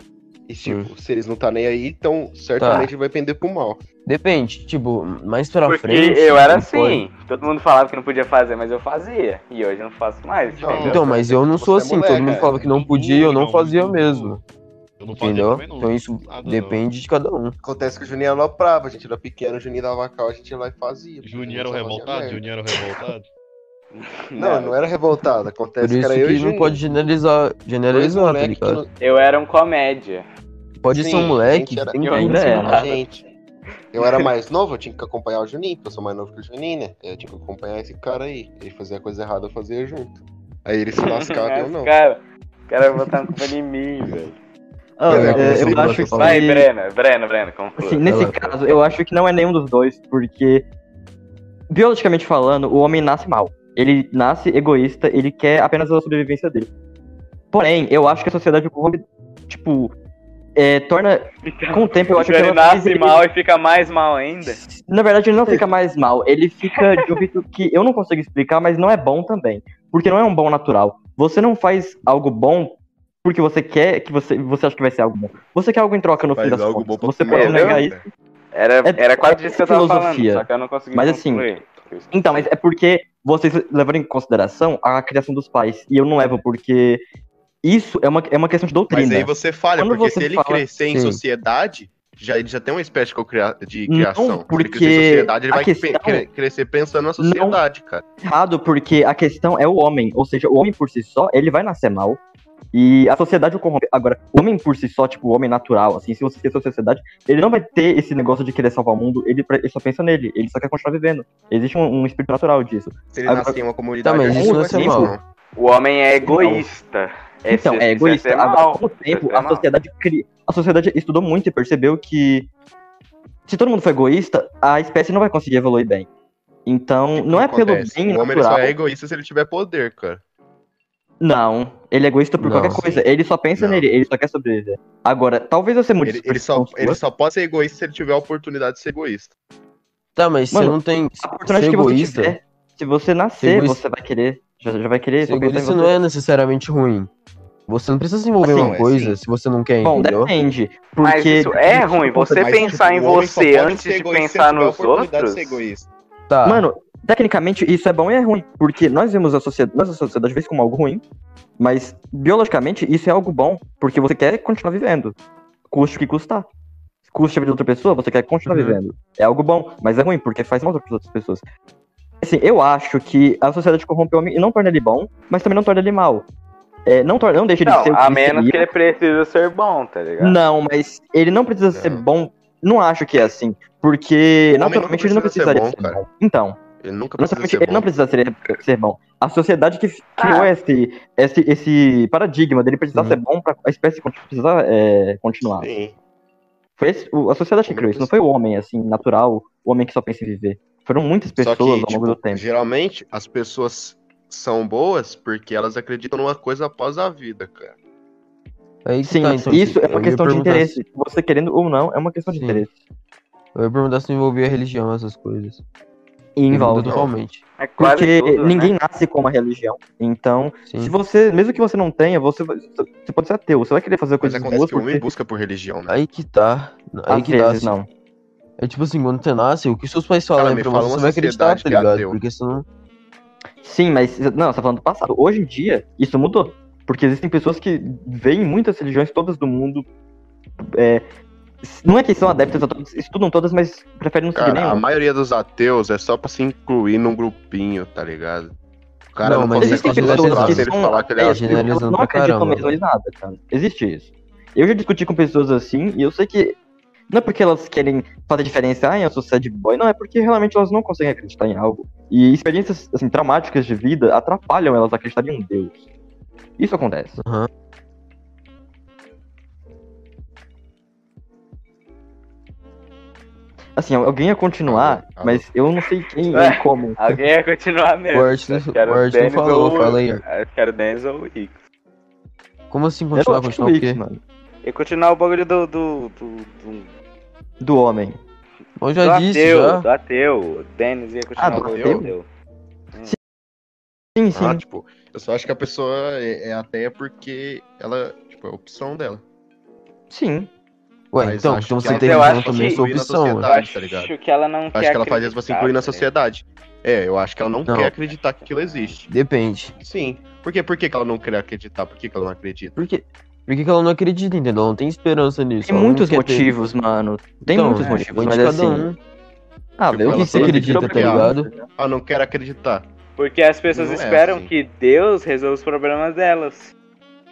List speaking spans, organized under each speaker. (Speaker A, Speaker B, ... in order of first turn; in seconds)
Speaker A: 0.5-3.8, 10.6-12.9, 17.6-22.5, 24.4-26.8, 27.9-28.9, 30.9-33.2, 33.9-41.9, 45.1-46.2, 76.3-78.0, 88.9-98.0, 113.1-115.2, 127.2-130.2, 133.6-133.9, 136.0-139.3, 148.4-149.2, 152.4-155.9, 181.7-182.0, 184.6-186.0, 186.8-187.9, 195.4-196.0, 197.6-198.1, 201.4-207.7, 216.8-217.1, 224.2-226.0, 230.3-232.2, 244.3-248.6, 249.1-251.7, 274.7-275.4, 291.5-292.1, 294.4-299.2, 301.2-304.1, 304.7-309.1, 309.8-312.8, 319.9-322.9, 323.7-324.5
Speaker B: 0.6-0.9, 2.6-2.9, 4.0-7.0, 10.8-14.4, 15.2-17.6, 25.8-28.8, 30.8-32.8, 45.1-46.4, 48.0-48.4, 90.9-91.2, 114.0-115.1, 132.4-133.0, 140.2-142.4, 143.4-143.8, 145.2-147.1, 147.7-150.3, 156.3-156.7, 168.5-168.8, 192.9-193.2, 208.8-210.8, 212.3-212.6, 213.6-215.6, 216.5-217.4, 220.7-220.9, 225.9-227.7, 228.6-232.7, 249.2-252.8, 267.2-267.5, 278.1-280.2, 282.7-284.0, 288.8-289.9, 301.1-303.5, 307.7-307.9, 309.1-309.7, 312.8-316.6, 317.4-319.0, 320.0-321.5
Speaker C: 5.7-11.0, 12.2-12.5, 23.9-24.8, 29.0-30.2, 31.9-33.2, 34.0-34.3, 41.0-44.4, 46.0-48.1, 61.5-64.6, 77.3-77.8, 78.5-82.5, 115.5-119.7, 151.0-155.6, 177.6-180.4, 190.2-190.5, 217.6-218.7, 276.3-281.6, 284.6-286.9, 289.0-292.3, 301.8-302.9, 303.4-306.1, 308.6-309.0, 317.8-318.1, 323.2-326.7
Speaker D: 10.5-11.0, 12.6-14.4, 15.0-16.8, 21.2-23.3
Speaker E: 32.1-32.8, 45.0-46.7, 47.8-50.7, 51.7-56.7, 57.5-59.9, 60.5-63.2, 64.5-78.0, 78.8-81.5, 82.1-87.0, 87.6-90.6, 93.9-96.2, 97.2-97.6, 98.2-102.2, 102.7-113.6, 114.3-115.1, 116.2-116.6, 117.5-122.5, 123.5-126.1, 126.7-128.7, 131.2-137.0, 140.5-146.0, 148.4-148.8, 149.8-152.7, 156.4-161.0, 161.6-165.1, 165.7-166.5, 167.1-171.4, 172.2-176.3, 176.9-178.7, 180.2-186.6, 187.2-195.7, 196.8-202.4, 209.0-212.7, 216.4-217.0, 217.8-225.1, 227.1-227.9, 233.6-239.9, 240.6-241.1, 241.6-244.8, 249.6-256.6, 257.1-265.8, 266.6-267.2, 273.8-277.1, 283.1-284.2, 287.6-288.2, 291.4-292.1, 294.2-294.6, 300.1-300.5, 315.7-318.9, 319.8-321.7